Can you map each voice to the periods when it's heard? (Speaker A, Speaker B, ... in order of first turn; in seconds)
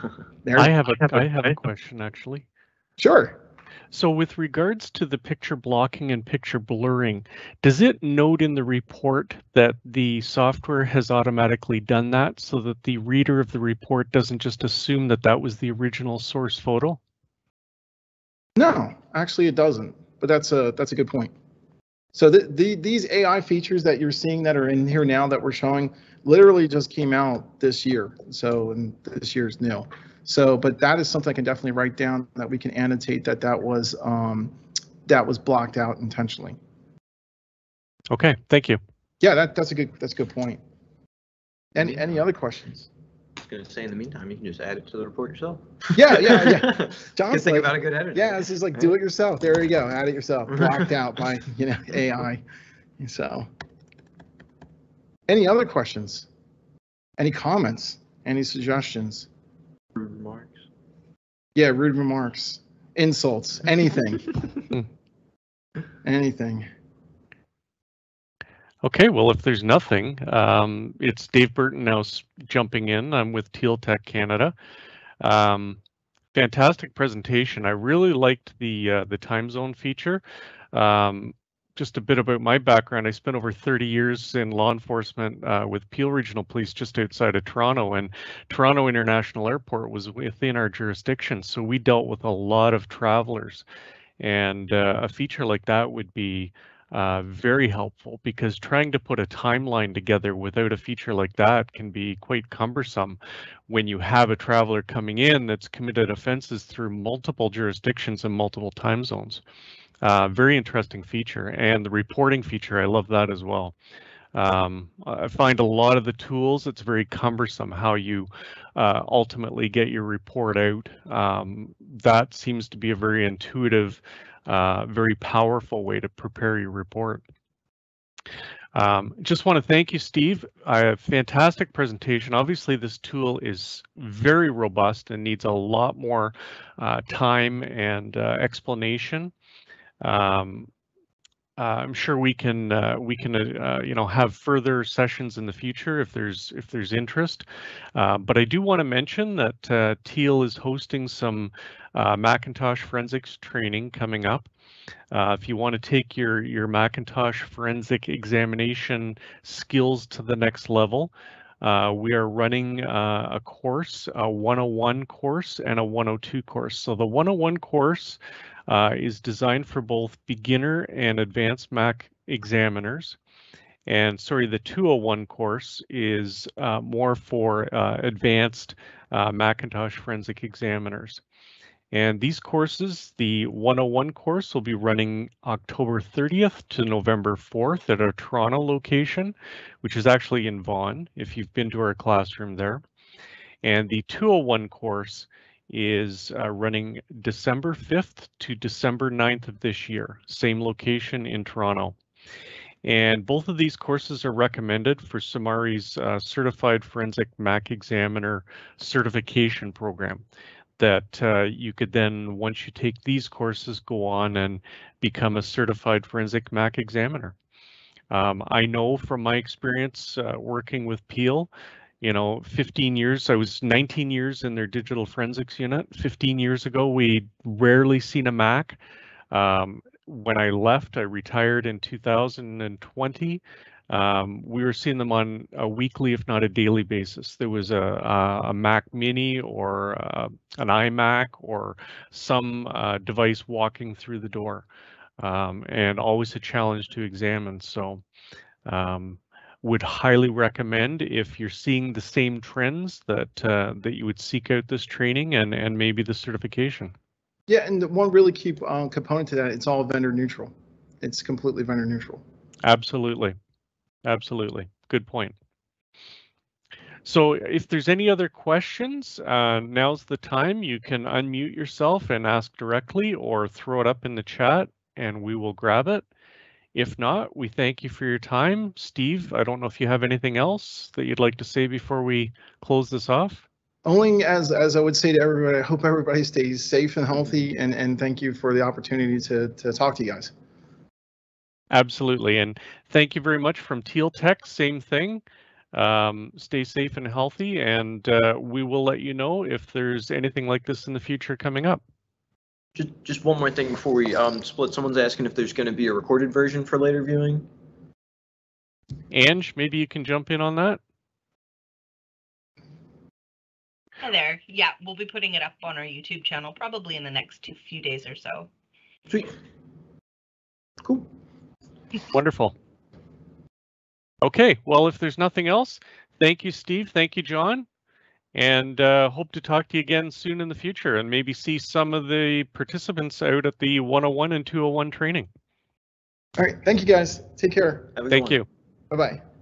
Speaker A: 0.4-1.3, 3.0-3.4, 18.6-21.3, 22.1-34.5, 35.1-36.6, 39.2-40.6, 41.8-42.9, 45.9-52.4, 53.0-53.5, 55.3-56.3, 57.2-59.3, 61.6-64.4, 66.0-66.7, 257.5-262.2, 283.9-290.3, 336.4-337.9, 338.9-339.2
Speaker B: 0.6-2.5, 3.9-17.0, 38.1-38.8, 68.8-74.5, 75.2-75.8, 76.3-80.2, 80.7-93.7, 94.2-103.2, 103.7-109.4, 110.0-113.8, 114.3-127.2, 128.8-139.3, 140.0-140.7, 141.6-154.5, 155.1-173.2, 173.9-181.2, 181.9-192.8, 193.6-201.9, 202.8-210.2, 210.8-217.3, 218.1-221.5, 222.0-228.8, 229.3-244.7, 245.2-248.0, 248.7-256.9, 262.6-263.4, 264.1-265.3, 267.1-276.0, 276.7-283.4, 291.7-295.2, 295.7-301.8, 309.1-310.8, 322.1-322.5, 324.2-327.6, 328.3-335.3, 338.1-338.4
Speaker C: 43.4-48.9, 50.6-50.8, 60.0-60.6, 302.8-307.5, 320.8-321.1, 338.0-338.4
Speaker D: 314.0-318.5